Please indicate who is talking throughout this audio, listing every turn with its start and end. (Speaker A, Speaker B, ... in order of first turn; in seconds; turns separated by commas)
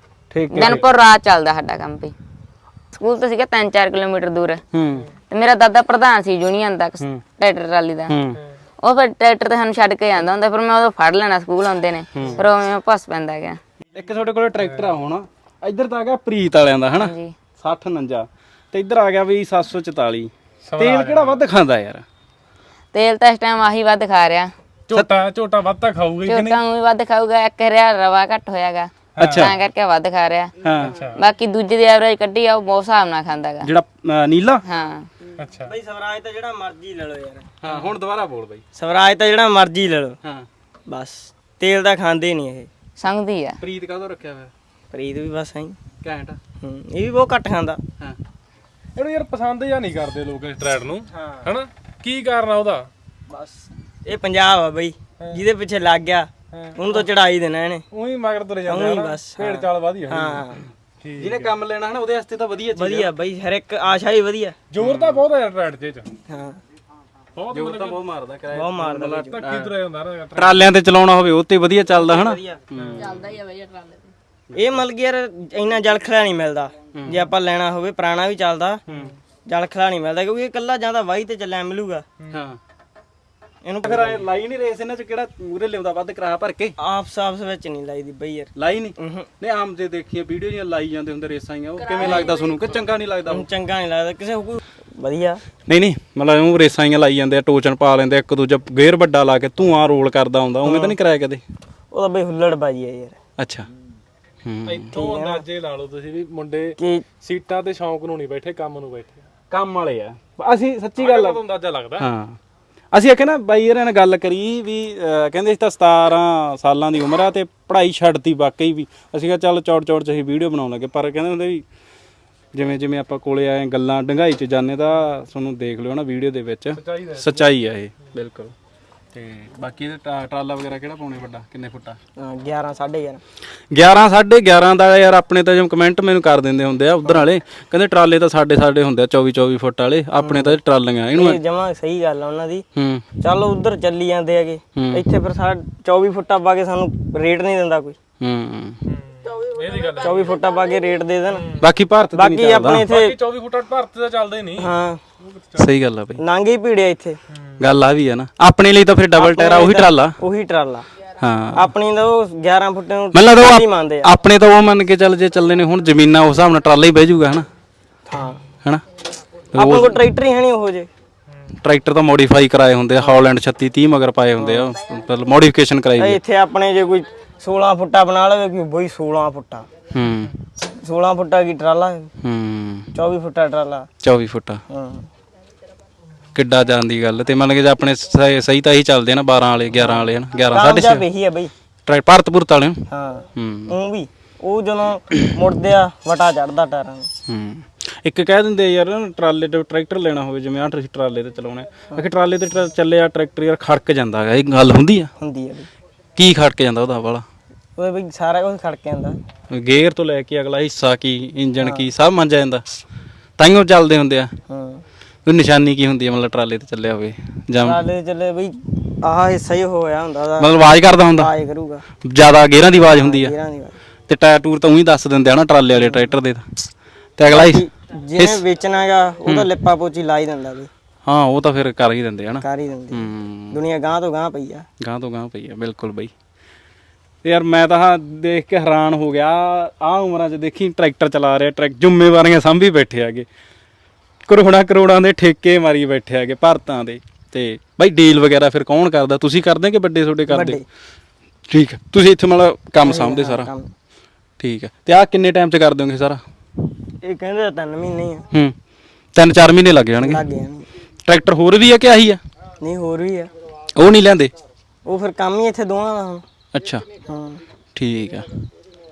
Speaker A: 0.3-0.9, Speaker B: 0.5-2.1, Speaker C: 0.5-0.9, Speaker B: 3.0-4.6, Speaker A: 4.7-5.1, Speaker B: 5.3-8.1, Speaker A: 8.1-8.4, Speaker B: 8.8-13.6, Speaker A: 12.1-12.4, Speaker A: 13.9-22.1, Speaker C: 14.6-14.9, Speaker B: 17.0-17.3, Speaker C: 20.6-21.4, Speaker B: 22.9-24.5, Speaker C: 24.9-26.6, Speaker B: 26.3-30.5, Speaker C: 29.2-29.5, Speaker A: 29.2-29.5, Speaker A: 30.6-31.0, Speaker C: 30.8-31.2, Speaker B: 31.1-33.7, Speaker A: 33.6-34.6, Speaker B: 34.6-35.1, Speaker C: 35.4-35.7, Speaker D: 35.6-37.5, Speaker A: 37.6-38.6, Speaker D: 38.8-40.2, Speaker D: 40.9-42.7, Speaker B: 43.0-43.6, Speaker A: 43.6-44.5, Speaker D: 44.9-45.8, Speaker A: 46.0-46.4, Speaker D: 46.6-47.8, Speaker C: 49.0-52.9, Speaker D: 51.1-51.5, Speaker D: 53.3-57.9, Speaker C: 56.5-57.0, Speaker C: 57.9-60.5, Speaker D: 58.7-60.7, Speaker C: 61.0-61.5, Speaker A: 61.2-63.1, Speaker D: 62.7-64.6, Speaker C: 64.7-66.1, Speaker A: 64.8-65.2, Speaker D: 66.3-66.6, Speaker C: 67.4-68.0, Speaker A: 67.5-69.7, Speaker D: 68.5-69.4, Speaker C: 69.3-70.7, Speaker A: 70.3-73.4, Speaker D: 72.0-72.6, Speaker C: 72.8-73.1, Speaker B: 73.3-73.9, Speaker A: 74.5-74.8, Speaker D: 74.5-78.8, Speaker A: 77.0-77.2, Speaker C: 78.9-79.2, Speaker D: 79.5-82.1, Speaker A: 82.3-82.6, Speaker D: 83.7-84.3, Speaker A: 83.8-86.7, Speaker D: 86.8-89.3, Speaker A: 88.6-93.5, Speaker D: 92.0-92.3, Speaker D: 93.3-95.4, Speaker A: 95.7-101.4, Speaker D: 100.6-101.0, Speaker D: 101.9-103.2, Speaker A: 103.4-103.7, Speaker A: 104.4-104.9, Speaker C: 104.7-109.2, Speaker D: 104.9-105.4, Speaker D: 106.8-107.0, Speaker A: 109.5-111.4, Speaker C: 111.0-112.0, Speaker A: 112.0-112.4, Speaker A: 112.9-121.6, Speaker A: 122.5-128.5, Speaker C: 126.8-127.5, Speaker A: 129.1-132.0, Speaker D: 132.2-133.2, Speaker A: 133.7-141.4, Speaker D: 140.2-140.6, Speaker D: 141.1-142.6, Speaker A: 142.8-143.1, Speaker D: 143.2-148.0, Speaker A: 144.8-145.0, Speaker A: 148.2-148.8, Speaker C: 148.9-150.3, Speaker D: 150.0-151.5, Speaker C: 151.3-151.6, Speaker A: 151.6-152.9, Speaker D: 152.1-153.2, Speaker C: 152.7-154.7, Speaker D: 154.6-155.0, Speaker C: 155.2-155.7, Speaker A: 155.6-156.2, Speaker D: 156.2-157.2, Speaker C: 157.3-157.6, Speaker A: 157.6-160.2, Speaker D: 159.2-160.9, Speaker A: 161.2-161.7, Speaker D: 161.5-164.1, Speaker A: 163.1-167.5, Speaker D: 168.1-168.4, Speaker A: 169.5-170.0, Speaker D: 169.5-170.9, Speaker A: 171.6-176.2, Speaker D: 174.4-174.7, Speaker D: 176.0-179.7, Speaker A: 179.9-180.3, Speaker D: 180.7-182.1, Speaker A: 182.2-182.9, Speaker D: 182.9-183.9, Speaker A: 184.0-184.6, Speaker D: 184.7-185.1, Speaker A: 186.3-191.1, Speaker D: 189.8-191.5, Speaker A: 191.9-192.8, Speaker D: 192.9-197.1, Speaker A: 193.3-193.7, Speaker A: 197.3-205.1, Speaker D: 205.2-205.7, Speaker A: 206.2-207.2, Speaker D: 207.8-209.2, Speaker A: 209.5-212.7, Speaker D: 211.6-211.9, Speaker A: 213.4-214.3, Speaker D: 214.5-214.8, Speaker A: 215.3-217.8, Speaker D: 217.6-221.8, Speaker A: 220.4-221.3, Speaker A: 222.0-223.3, Speaker D: 222.8-223.8, Speaker A: 224.1-227.7, Speaker D: 227.3-230.7, Speaker A: 228.2-228.4, Speaker A: 231.1-233.6, Speaker D: 232.4-234.7, Speaker A: 234.8-236.1, Speaker A: 237.2-243.3, Speaker A: 244.3-250.6, Speaker D: 250.3-250.7, Speaker A: 251.5-253.5, Speaker D: 252.8-253.7, Speaker A: 254.4-256.2, Speaker D: 257.0-258.3, Speaker A: 259.1-260.2, Speaker D: 260.0-260.7, Speaker A: 261.1-262.2, Speaker D: 262.6-263.3, Speaker A: 263.7-264.3, Speaker D: 264.9-266.2, Speaker A: 266.5-266.9, Speaker D: 267.1-267.4, Speaker A: 267.8-268.3